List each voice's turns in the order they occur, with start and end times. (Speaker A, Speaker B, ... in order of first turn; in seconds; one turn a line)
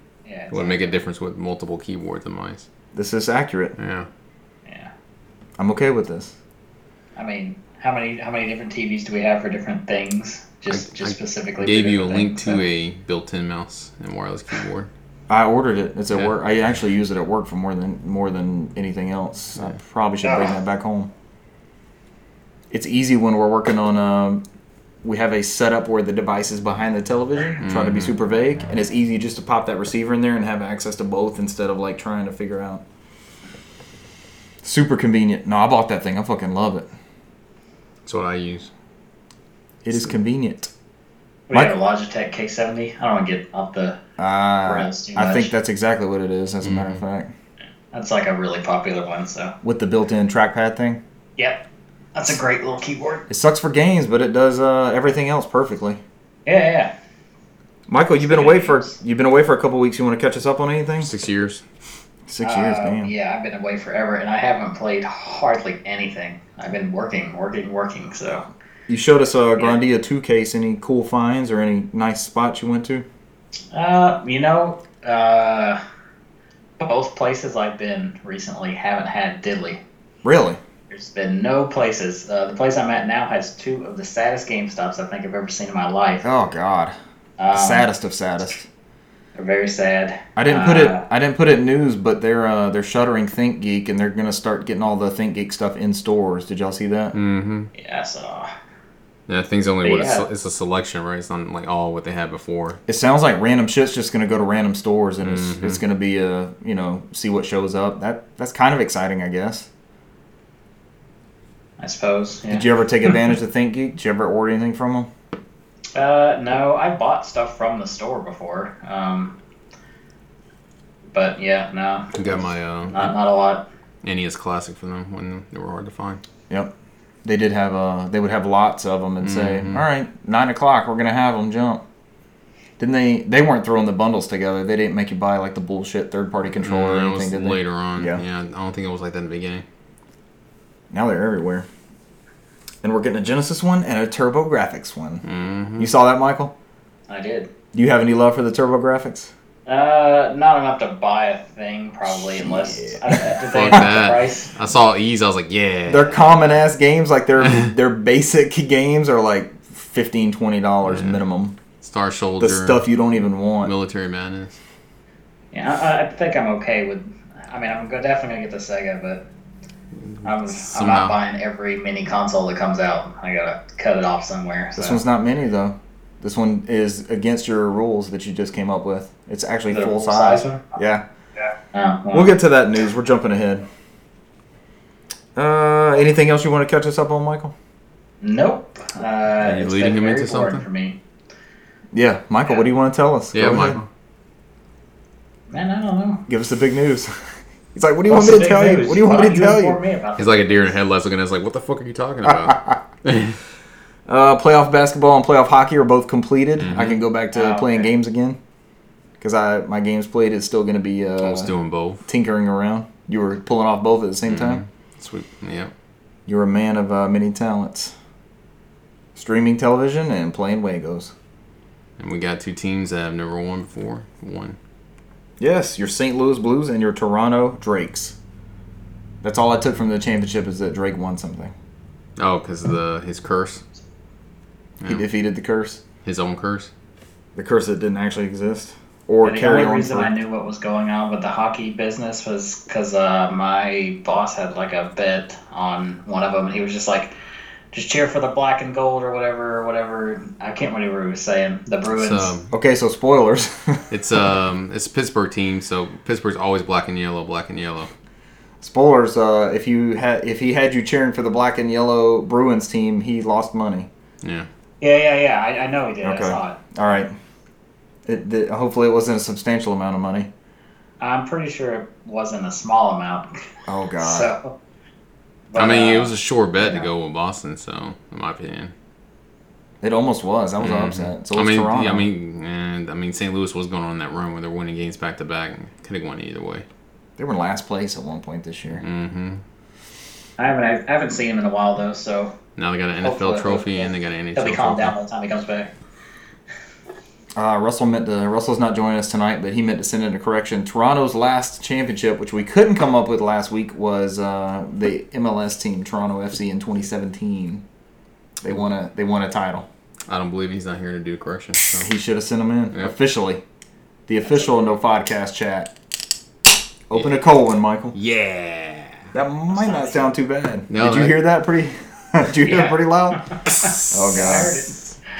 Speaker A: 0.3-1.0
Speaker B: 0.5-2.7
Speaker C: 2.9-3.8
Speaker B: 3.8-4.1
Speaker A: 4.7-4.9
Speaker C: 5.6-6.3
Speaker A: 7.2-12.6
Speaker B: 10.7-14.9
Speaker C: 15.3-21.1
Speaker A: 20.2-20.6
Speaker C: 22.7-24.4
Speaker C: 25.0-32.8
Speaker B: 27.6-28.1
Speaker C: 34.6-36.9
Speaker B: 38.0-38.7
Speaker C: 39.8-40.7
Speaker A: 41.5-44.0
Speaker C: 44.2-47.3
Speaker A: 44.6-45.5
Speaker B: 46.6-47.0
Speaker A: 47.9-49.5
Speaker C: 49.6-51.0
Speaker A: 51.4-53.3
Speaker C: 53.3-56.0
Speaker A: 56.5-56.9
Speaker C: 57.9-61.1
Speaker A: 58.2-59.0
Speaker B: 61.0-61.6
Speaker C: 62.3-63.1
Speaker A: 62.4-68.5
Speaker C: 68.9-73.1
Speaker A: 73.7-75.8
Speaker A: 76.8-79.8
Speaker C: 80.2-80.6
Speaker A: 80.9-86.2
Speaker C: 86.2-87.0
Speaker A: 87.4-87.9
Speaker C: 87.5-88.7
Speaker A: 89.4-91.0
Speaker C: 90.4-97.2
Speaker B: 97.1-97.7
Speaker A: 97.7-98.5
Speaker B: 99.3-102.8
Speaker A: 99.8-100.3
Speaker C: 102.9-109.7
Speaker B: 105.2-105.8
Speaker A: 111.8-112.7
Speaker C: 112.5-115.1
Speaker A: 116.0-119.4
Speaker A: 121.1-123.7
Speaker B: 122.2-123.1
Speaker B: 124.0-126.2
Speaker C: 127.2-131.8
Speaker B: 129.2-129.8
Speaker C: 132.8-138.2
Speaker B: 136.6-139.7
Speaker C: 140.9-141.7
Speaker C: 142.8-145.2
Speaker B: 145.2-145.9
Speaker C: 145.8-146.5
Speaker A: 147.1-147.5
Speaker C: 147.7-149.3
Speaker A: 149.7-154.5
Speaker C: 152.3-153.2
Speaker B: 153.5-156.2
Speaker C: 155.9-161.6
Speaker B: 160.9-161.2
Speaker B: 161.8-162.8
Speaker C: 162.4-163.7
Speaker B: 163.6-164.6
Speaker A: 165.5-169.3
Speaker B: 170.1-171.2
Speaker A: 170.2-175.0
Speaker C: 174.8-181.1
Speaker A: 179.7-180.6
Speaker A: 181.7-182.4
Speaker C: 182.1-183.7
Speaker C: 185.4-187.5
Speaker A: 188.2-191.0
Speaker B: 189.4-190.6
Speaker C: 191.9-193.8
Speaker B: 193.3-193.9
Speaker A: 195.5-196.3
Speaker C: 196.3-197.1
Speaker C: 197.7-199.8
Speaker A: 198.1-200.8
Speaker B: 200.2-203.4
Speaker C: 202.3-202.8
Speaker C: 204.1-208.4
Speaker B: 206.6-207.0
Speaker A: 207.3-207.9
Speaker C: 209.2-211.5
Speaker B: 211.2-212.0
Speaker C: 212.1-214.6
Speaker B: 214.3-215.7
Speaker C: 216.3-217.9
Speaker C: 219.2-221.1
Speaker B: 222.0-224.6
Speaker C: 225.4-228.2
Speaker C: 229.2-231.5
Speaker B: 232.2-233.6
Speaker C: 234.9-235.8
Speaker B: 236.1-236.7
Speaker C: 237.4-240.1
Speaker A: 239.2-247.1
Speaker A: 247.7-252.3
Speaker B: 252.0-252.5
Speaker C: 252.5-253.8
Speaker B: 253.9-257.9
Speaker C: 258.6-263.9
Speaker A: 264.8-266.7
Speaker C: 266.0-267.1
Speaker C: 268.1-270.3
Speaker A: 271.0-273.3
Speaker C: 273.7-274.3
Speaker A: 274.0-274.5
Speaker A: 275.5-276.1
Speaker B: 275.6-278.7
Speaker C: 276.6-276.9
Speaker C: 279.8-282.1
Speaker B: 280.6-286.6
Speaker C: 287.2-288.8
Speaker B: 288.8-289.4
Speaker A: 290.4-292.3
Speaker B: 292.6-294.9
Speaker A: 293.0-295.7
Speaker C: 297.4-307.6
Speaker C: 308.4-309.7
Speaker B: 310.1-311.9
Speaker C: 311.8-313.4
Speaker C: 314.1-315.7
Speaker C: 316.9-317.9
Speaker B: 317.9-319.1
Speaker C: 319.1-324.6
Speaker A: 319.5-320.1
Speaker B: 320.7-321.2
Speaker A: 322.4-324.8
Speaker B: 323.5-324.3